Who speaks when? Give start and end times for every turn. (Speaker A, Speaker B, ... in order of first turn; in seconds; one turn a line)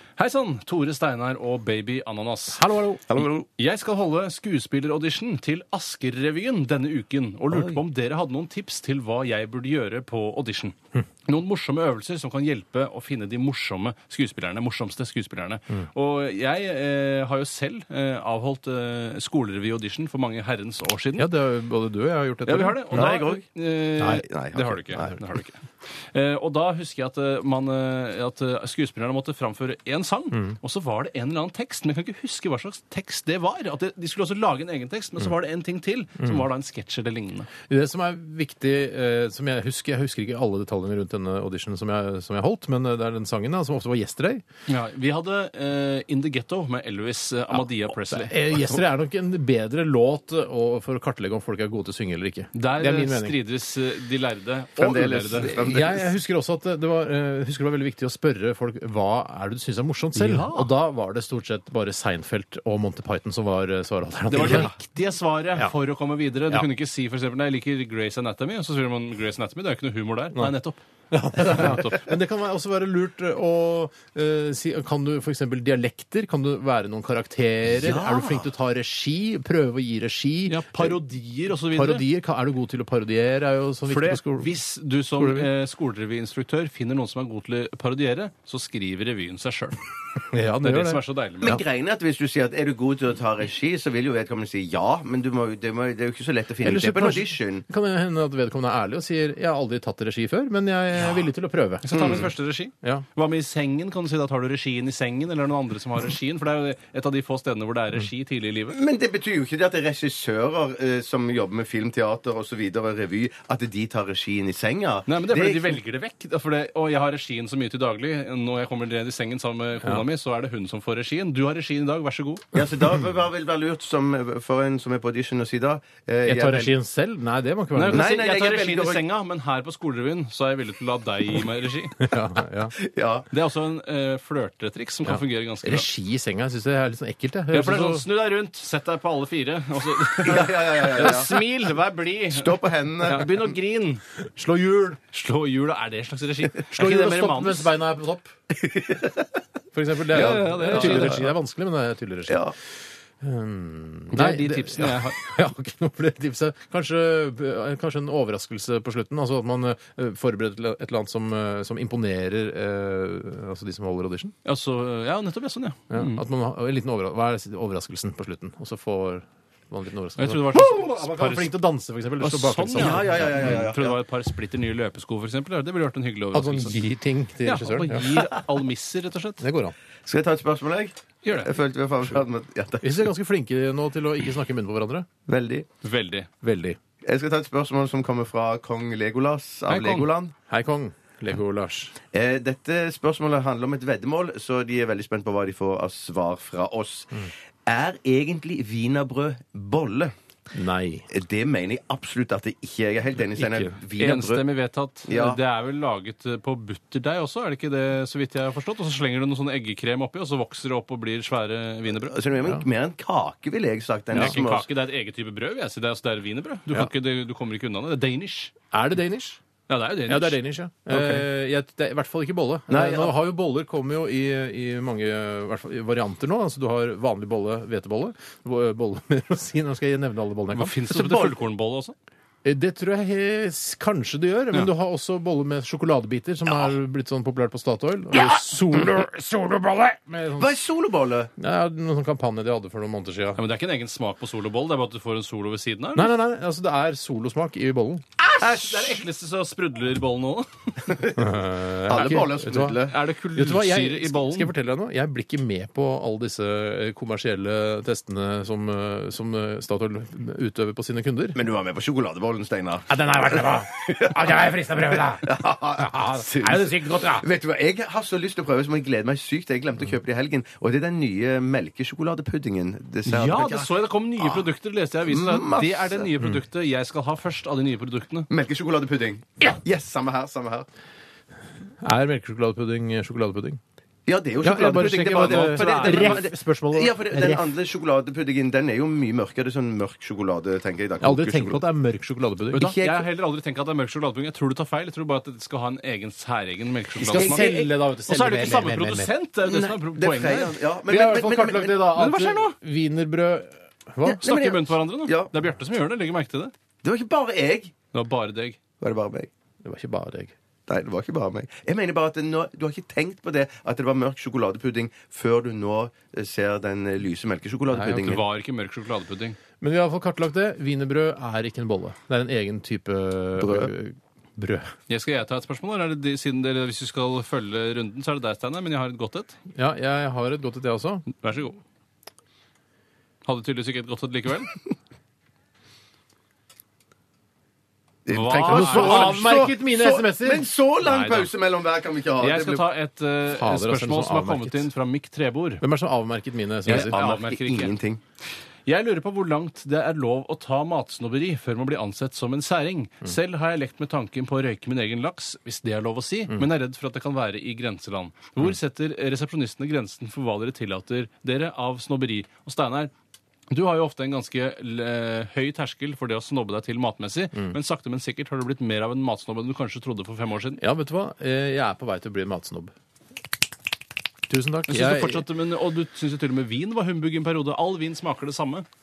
Speaker A: 0.2-2.6
Speaker B: 2.5-3.1
Speaker C: 3.1-3.5
Speaker A: 3.6-21.3
Speaker B: 21.2-23.1
Speaker A: 22.4-37.5
Speaker C: 22.9-23.4
Speaker C: 24.1-25.1
Speaker B: 37.7-44.4
Speaker A: 44.7-48.5
Speaker B: 47.5-53.4
Speaker A: 52.5-55.6
Speaker C: 54.8-56.1
Speaker B: 55.6-64.8
Speaker A: 60.1-60.7
Speaker A: 64.3-70.8
Speaker C: 64.4-64.6
Speaker B: 71.1-81.0
Speaker A: 71.3-72.0
Speaker C: 77.8-78.3
Speaker A: 77.8-78.2
Speaker A: 80.5-82.0
Speaker B: 81.7-84.5
Speaker A: 83.9-89.8
Speaker B: 85.2-85.5
Speaker B: 90.3-91.6
Speaker A: 90.6-91.6
Speaker C: 91.4-97.6
Speaker B: 96.6-102.3
Speaker A: 101.8-108.8
Speaker C: 101.9-102.3
Speaker C: 108.7-115.8
Speaker A: 115.1-122.5
Speaker C: 122.5-126.7
Speaker B: 126.2-128.1
Speaker A: 127.7-132.0
Speaker C: 127.9-129.0
Speaker B: 132.0-132.7
Speaker C: 132.8-133.3
Speaker A: 133.3-135.9
Speaker B: 135.1-138.1
Speaker A: 137.5-144.0
Speaker C: 140.2-141.3
Speaker B: 141.0-141.3
Speaker C: 142.3-143.3
Speaker B: 144.3-145.0
Speaker A: 145.1-147.7
Speaker B: 146.7-148.3
Speaker C: 148.5-149.3
Speaker B: 149.7-152.5
Speaker A: 150.1-151.2
Speaker C: 150.1-151.3
Speaker C: 152.3-152.5
Speaker B: 153.2-164.3
Speaker A: 154.1-155.2
Speaker A: 164.4-166.2
Speaker B: 165.9-173.6
Speaker A: 170.2-171.5
Speaker A: 172.2-176.8
Speaker C: 172.7-174.0
Speaker B: 176.3-178.2
Speaker A: 177.4-179.4
Speaker B: 179.4-179.7
Speaker C: 180.1-183.1
Speaker A: 181.2-181.5
Speaker B: 182.8-185.1
Speaker C: 185.3-185.7
Speaker A: 185.8-186.3
Speaker B: 186.4-186.8
Speaker C: 187.0-190.3
Speaker A: 189.7-190.1
Speaker B: 190.5-191.9
Speaker C: 192.1-200.1
Speaker B: 200.5-201.1
Speaker C: 201.1-204.4
Speaker B: 203.3-203.7
Speaker A: 204.0-212.2
Speaker C: 205.1-205.4
Speaker C: 212.0-214.7
Speaker A: 214.1-218.5
Speaker B: 214.1-214.4
Speaker B: 218.7-219.4
Speaker A: 219.7-220.4
Speaker B: 220.1-230.8
Speaker C: 220.9-221.2
Speaker C: 222.7-223.1
Speaker A: 230.5-231.9
Speaker C: 230.9-231.3
Speaker B: 232.4-240.6
Speaker C: 240.4-241.3
Speaker B: 241.4-243.4
Speaker A: 243.3-246.1
Speaker B: 245.9-248.0
Speaker A: 248.2-251.0
Speaker C: 248.4-249.0
Speaker C: 250.8-253.0
Speaker B: 251.2-261.4
Speaker A: 252.9-254.5
Speaker C: 261.3-264.2
Speaker B: 262.9-267.2
Speaker C: 265.1-274.5
Speaker A: 273.1-278.3
Speaker C: 275.1-276.1
Speaker C: 278.3-280.7
Speaker B: 281.8-283.6
Speaker C: 284.1-291.6
Speaker B: 284.4-287.5
Speaker A: 285.1-286.2
Speaker B: 291.0-292.7
Speaker A: 292.5-300.6
Speaker C: 292.5-293.0
Speaker B: 297.0-299.1
Speaker C: 297.1-297.5
Speaker C: 299.4-301.9
Speaker B: 300.9-304.2
Speaker A: 301.9-302.6
Speaker C: 304.0-305.3
Speaker A: 304.2-306.5
Speaker C: 306.8-307.7
Speaker A: 307.9-308.6
Speaker C: 308.8-309.3
Speaker B: 309.6-310.3
Speaker C: 310.7-318.2
Speaker B: 317.7-318.2
Speaker A: 317.9-319.4
Speaker B: 319.6-324.7
Speaker C: 323.4-323.7
Speaker A: 324.9-329.4
Speaker B: 329.5-331.1
Speaker A: 331.1-331.6
Speaker A: 333.2-334.6
Speaker C: 338.1-342.6
Speaker A: 338.1-339.3
Speaker B: 338.4-340.4
Speaker A: 340.8-341.3
Speaker A: 342.2-345.6
Speaker B: 343.3-344.7
Speaker B: 345.6-347.0
Speaker A: 346.6-347.7
Speaker C: 346.7-348.0
Speaker A: 348.6-362.9
Speaker A: 363.5-370.6
Speaker B: 370.6-372.7
Speaker B: 374.3-375.2
Speaker A: 374.7-378.6